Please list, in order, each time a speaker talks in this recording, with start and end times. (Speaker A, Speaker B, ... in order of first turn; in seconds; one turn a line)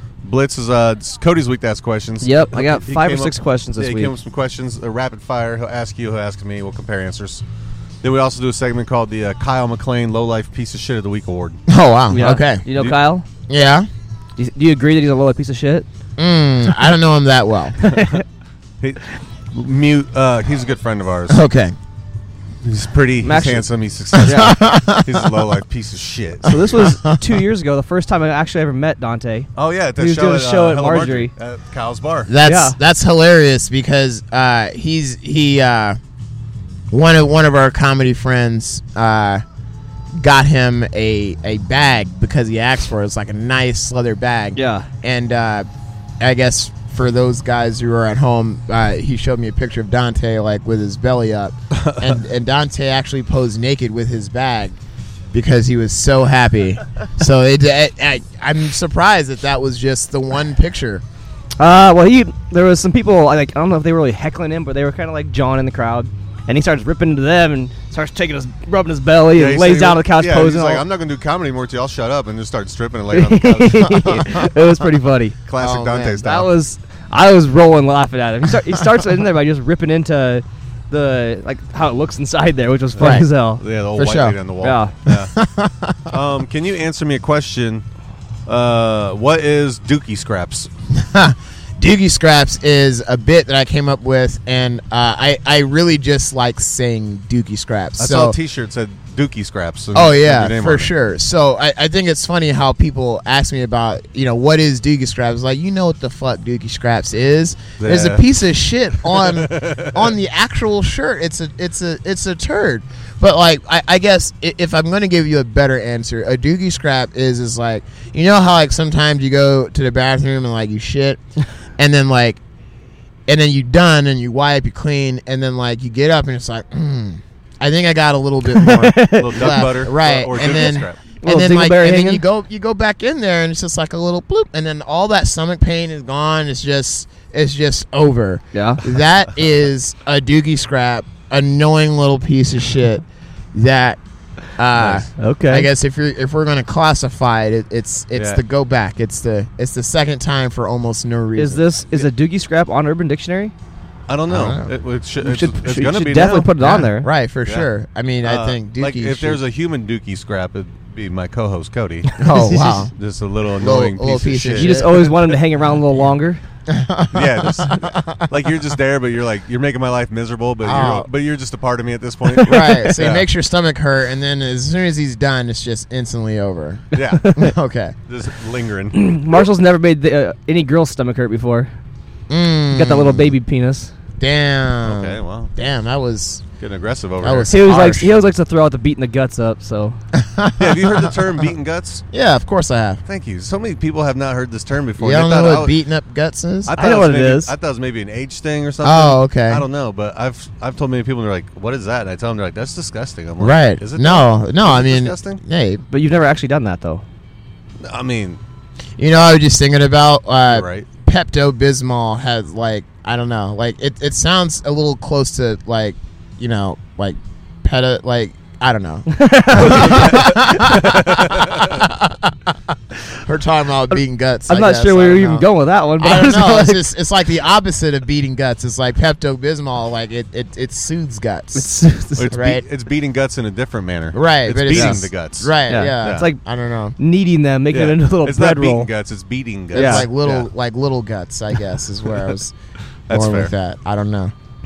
Speaker A: 0.2-7.4
Speaker B: 2.2-4.1
Speaker A: 8.0-11.6
Speaker C: 11.7-12.6
Speaker B: 12.1-13.2
Speaker C: 13.5-13.9
Speaker B: 14.4-15.8
Speaker C: 16.2-17.8
Speaker B: 17.8-18.2
Speaker A: 17.9-18.2
Speaker A: 18.8-21.4
Speaker C: 21.3-21.8
Speaker A: 22.6-26.6
Speaker B: 23.2-23.6
Speaker C: 24.2-25.3
Speaker B: 24.2-24.5
Speaker B: 26.4-31.3
Speaker C: 26.5-27.1
Speaker A: 29.6-32.3
Speaker C: 32.3-36.0
Speaker B: 32.4-32.8
Speaker C: 36.9-39.4
Speaker C: 40.1-45.7
Speaker B: 44.5-44.9
Speaker C: 46.2-54.8
Speaker A: 51.7-52.2
Speaker C: 55.3-61.0
Speaker B: 61.6-70.8
Speaker A: 69.3-74.4
Speaker B: 73.1-75.4
Speaker A: 75.5-76.5
Speaker C: 75.6-76.2
Speaker B: 76.2-83.6
Speaker A: 83.0-85.3
Speaker C: 83.0-83.2
Speaker C: 83.9-84.4
Speaker B: 84.6-84.9
Speaker C: 85.1-86.1
Speaker A: 86.1-87.8
Speaker A: 88.5-90.7
Speaker C: 90.9-98.4
Speaker A: 98.0-100.9
Speaker C: 99.9-121.2
Speaker A: 107.8-108.2
Speaker A: 109.1-110.0
Speaker C: 121.8-122.4
Speaker C: 123.3-144.0
Speaker B: 128.5-129.6
Speaker A: 129.2-131.0
Speaker B: 131.2-132.2
Speaker B: 138.5-138.8
Speaker C: 144.6-151.6
Speaker A: 144.7-145.0
Speaker B: 145.2-145.7
Speaker A: 148.1-148.4
Speaker B: 151.4-153.5
Speaker A: 154.1-156.5
Speaker C: 154.3-154.7
Speaker B: 155.2-157.1
Speaker C: 156.6-159.4
Speaker A: 158.2-162.2
Speaker C: 162.2-162.9
Speaker B: 162.3-162.7
Speaker A: 162.9-165.4
Speaker C: 163.6-165.1
Speaker B: 164.6-166.4
Speaker C: 166.7-168.3
Speaker A: 167.1-173.3
Speaker C: 170.6-171.1
Speaker C: 172.3-177.9
Speaker A: 176.9-177.3
Speaker B: 177.2-177.5
Speaker A: 178.1-179.1
Speaker B: 178.9-181.7
Speaker C: 182.3-183.3
Speaker B: 182.7-183.9
Speaker C: 184.2-186.4
Speaker A: 184.8-185.5
Speaker A: 186.6-187.6
Speaker C: 187.2-188.1
Speaker B: 187.5-190.0
Speaker C: 190.1-191.3
Speaker A: 190.6-192.0
Speaker C: 192.1-193.0
Speaker A: 193.1-195.7
Speaker C: 195.0-196.7
Speaker A: 196.7-205.4
Speaker B: 196.8-197.5
Speaker C: 198.8-199.6
Speaker C: 203.4-205.8
Speaker B: 205.9-207.0
Speaker A: 207.8-208.4
Speaker C: 209.0-225.5
Speaker A: 210.4-210.9
Speaker B: 219.1-220.7
Speaker A: 219.7-221.8
Speaker B: 224.5-226.8
Speaker C: 226.0-231.7
Speaker B: 231.5-232.3
Speaker A: 232.2-236.2
Speaker C: 232.3-232.6
Speaker C: 234.1-236.9
Speaker B: 234.7-235.0
Speaker B: 235.7-236.4
Speaker B: 237.0-238.9
Speaker A: 237.7-240.5
Speaker C: 239.7-242.5
Speaker B: 239.7-240.0
Speaker A: 243.1-243.5
Speaker C: 243.1-244.3